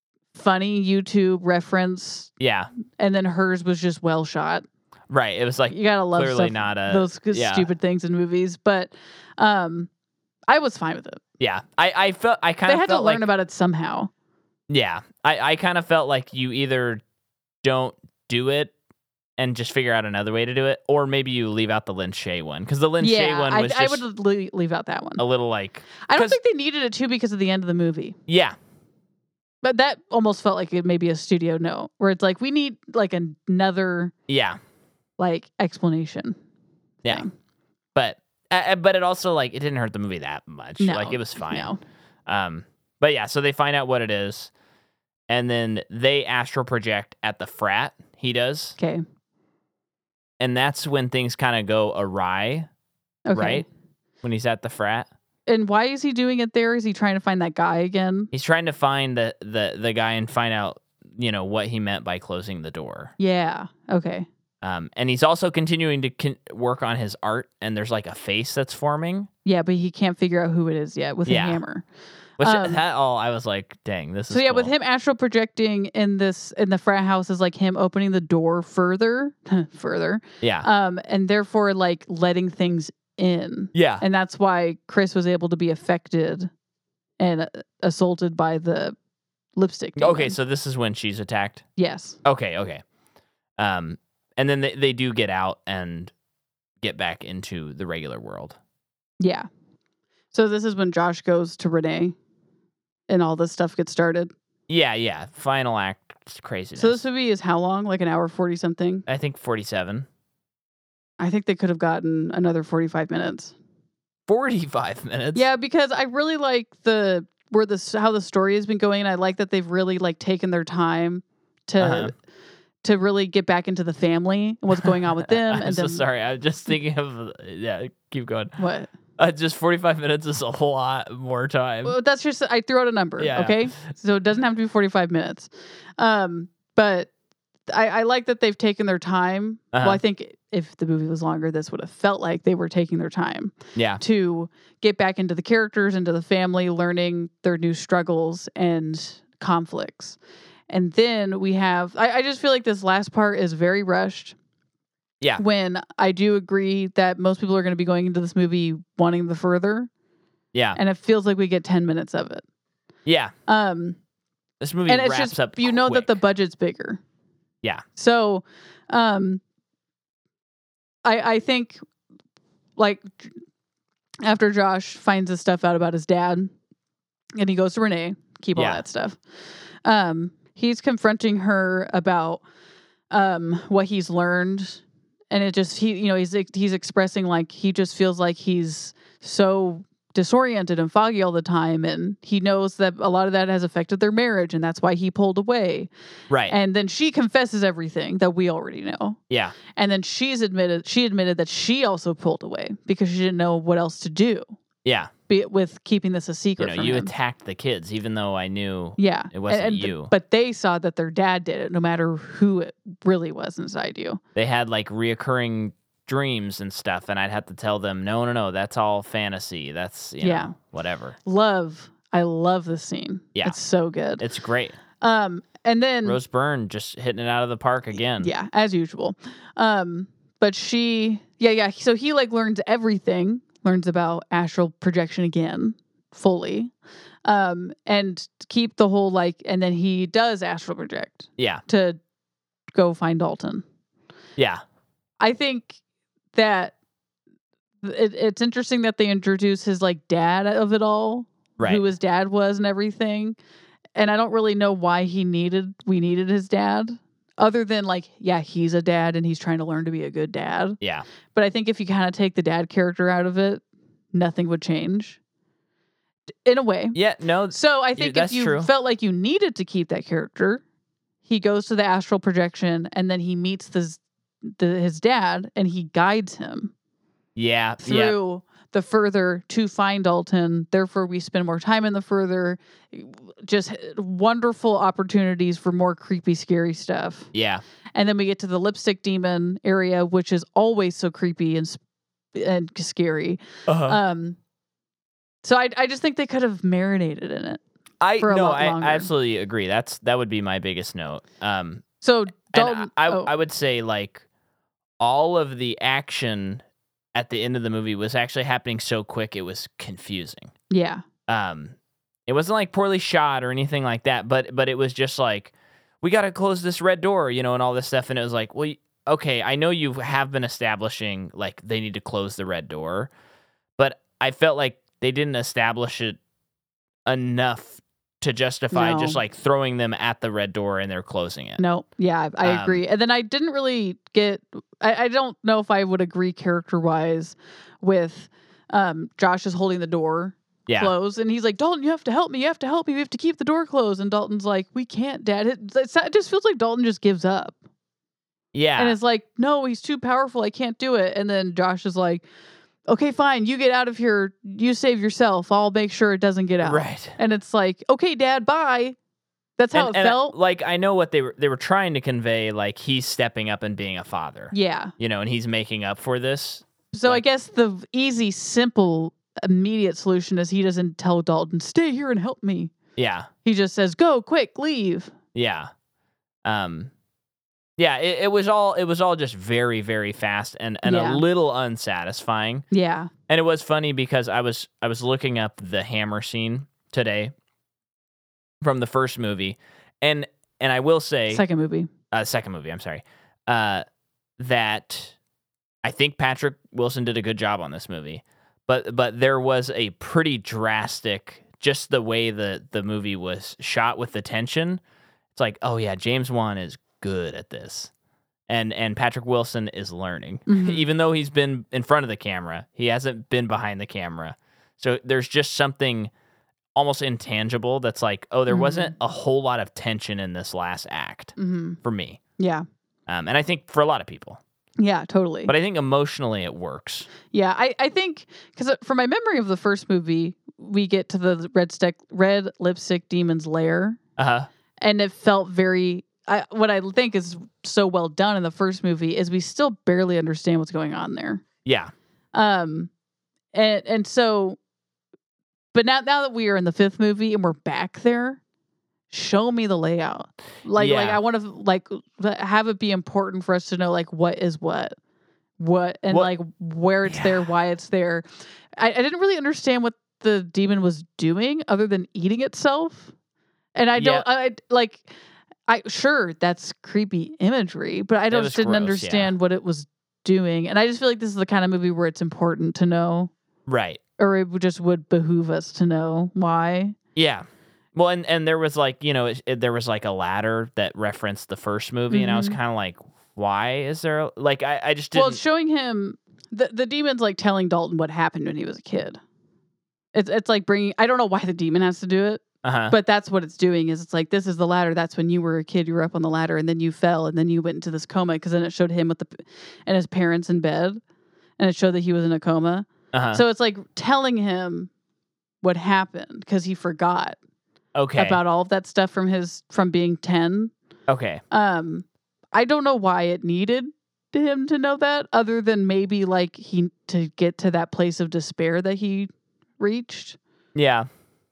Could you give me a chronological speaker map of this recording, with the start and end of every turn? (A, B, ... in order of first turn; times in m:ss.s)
0:00.3-0:02.3 A
0:02.4-0:02.7 B
0:03.0-0:04.6 A
0:05.1-0:07.7 B
0:05.7-0:09.9 A
0:10.5-0:11.2 A
0:11.4-0:13.2 B
0:12.7-0:14.1 A
0:14.7-0:17.0 B
0:17.6-0:18.7 B
0:19.4-0:24.0 B
0:23.0-0:25.2 A
0:25.2-0:26.4 B
0:26.0-0:28.2 A
0:28.3-0:28.6 B
0:29.6-0:34.1 A
0:34.3-0:34.6 B
0:35.2-0:36.4 A
0:37.1-0:37.3 A
0:38.0-0:41.7 B
0:40.8-0:41.8 A
0:42.3-0:44.5 B
0:45.3-0:48.8 B
0:50.4-0:52.7 B
0:53.3-0:53.7 A
0:53.4-0:53.7 B
0:54.2-0:55.1 B
0:55.5-0:58.3 A
0:58.3-1:03.1 B
1:03.2-1:04.3 A
1:04.6-1:09.3 B
1:09.4-1:11.8 A
1:11.3-1:11.6 B
1:12.4-1:14.7 B
1:12.4-1:12.8 A
1:14.3-1:26.5 A
1:20.4-1:20.7 B
1:23.7-1:24.0 B
1:27.2-1:29.0 A
1:29.6-1:30.4 A
1:30.0-1:31.6 B
1:31.8-1:32.2 A
1:32.2-1:32.8 B
1:33.6-1:36.1 B
1:36.8-1:38.6 B
1:39.2-1:39.5 A
1:40.3-1:42.2 A
1:43.1-1:44.3 A
1:44.7-1:47.0 B
1:46.8-1:49.0 A
1:49.1-1:50.1 B
1:51.2-1:53.5 A
1:54.3-1:55.4 B
1:55.4-2:02.1 A
2:01.8-2:02.1 B
2:02.8-2:06.0 A
2:04.8-2:08.6 B
2:08.6-2:08.9 A
2:09.2-2:12.0 B
2:11.8-2:17.1 A
2:13.2-2:13.7 B
2:17.7-2:30.2 A
2:19.7-2:20.0 B
2:23.8-2:24.0 B
2:30.7-2:34.4 A
2:35.4-2:39.9 A
2:40.5-2:40.8 B
2:40.8-2:42.4 A
2:43.0-2:43.3 B
2:43.5-2:44.0 A
2:44.6-2:46.2 B
2:44.9-2:47.0 A
2:48.0-2:49.4 A
2:51.0-2:51.8 A
2:52.8-2:53.3 A
2:54.2-2:56.5 A
2:57.4-2:59.2 A
2:58.6-2:58.8 B
2:59.8-3:02.4 A
3:03.1-3:15.9 A
3:16.3-3:16.6 B
3:16.5-3:19.2 A
3:19.3-3:19.6 B
3:19.8-3:24.6 A
3:24.8-3:25.1 B
3:25.3-3:27.1 A
3:26.6-3:30.1 B
3:29.0-3:34.2 A
3:34.4-3:41.2 B
3:40.2-3:40.6 A
3:41.2-3:44.2 A
3:44.2-3:44.8 B
3:45.0-3:46.2 A
3:46.0-3:48.3 B
3:48.2-3:56.7 A
3:57.2-4:02.0 A
4:01.4-4:01.6 B
4:02.7-4:03.6 A
4:04.4-4:04.6 B
4:05.2-4:05.8 A
4:06.3-4:06.7 A
4:07.8-4:13.4 A
4:14.0-4:20.8 A
4:21.3-4:25.2 A
4:26.5-4:27.0 A
4:27.0-4:28.7 B
4:27.5-4:30.6 A
4:31.3-4:36.7 A
4:37.4-4:38.2 B
4:37.8-4:47.3 A
4:47.3-4:47.6 B
4:48.0-4:51.8 A
4:52.4-4:54.4 A
4:53.7-4:54.0 B
4:55.4-4:57.6 A
4:58.0-5:01.8 B
4:58.2-4:59.1 A
5:02.0-5:03.3 A
5:02.4-5:04.2 B
5:05.0-5:06.6 B
5:07.1-5:10.5 B
5:10.7-5:11.0 A
5:11.3-5:11.7 B
5:12.3-5:23.1 B
5:23.8-5:26.2 B
5:27.1-5:31.6 B
5:28.7-5:29.2 A
5:31.6-5:47.6 A
5:32.4-5:32.8 B
5:40.7-5:40.9 B
5:48.5-5:49.0 B
5:48.8-5:52.2 A
5:52.9-5:59.0 A
5:56.6-5:57.2 B
5:59.6-6:00.4 A
5:59.7-6:07.2 B
6:04.5-6:04.9 A
6:06.9-6:12.7 A
6:13.0-6:13.3 B
6:13.4-6:15.1 A
6:15.4-6:15.7 B
6:16.4-6:16.9 B
6:17.8-6:22.6 B
6:20.8-6:21.2 A
6:22.7-6:23.1 A
6:23.3-6:27.3 B
6:28.6-6:31.4 B
6:31.3-6:31.9 A
6:32.1-6:33.8 B
6:34.4-6:35.2 B
6:35.8-6:44.8 B
6:45.3-6:47.9 B
6:48.5-6:56.1 B
6:50.5-6:50.9 A
6:56.8-7:02.2 B
6:58.5-6:59.0 A
7:01.4-7:01.8 A
7:02.4-7:02.6 A
7:03.1-7:04.4 B
7:04.8-7:05.5 A
7:05.5-7:07.1 B
7:07.3-7:14.0 A
7:14.2-7:14.5 B
7:14.8-7:21.4 A
7:21.6-7:21.9 B
7:22.3-7:22.9 A
7:23.5-7:24.6 A
7:25.7-7:28.4 A
7:29.1-7:35.0 A
7:30.8-7:31.2 B
7:35.6-7:38.3 A
7:37.1-7:37.4 B
7:38.8-7:43.1 A
7:43.8-7:45.1 A
7:44.0-7:44.3 B
7:45.7-7:53.3 A
7:48.3-7:49.3 B
7:53.7-7:54.0 B
7:54.2-7:57.0 A
7:57.2-8:05.4 B
8:02.1-8:02.6 A
8:05.1-8:09.2 A
8:10.1-8:21.0 A
8:12.6-8:13.0 B
8:21.6-8:24.9 A
8:23.1-8:23.4 B
8:25.6-8:27.4 A
8:28.0-8:28.4 B
8:28.2-8:30.7 A
8:31.1-8:31.4 B
8:31.5-8:40.4 A
8:40.8-8:41.1 B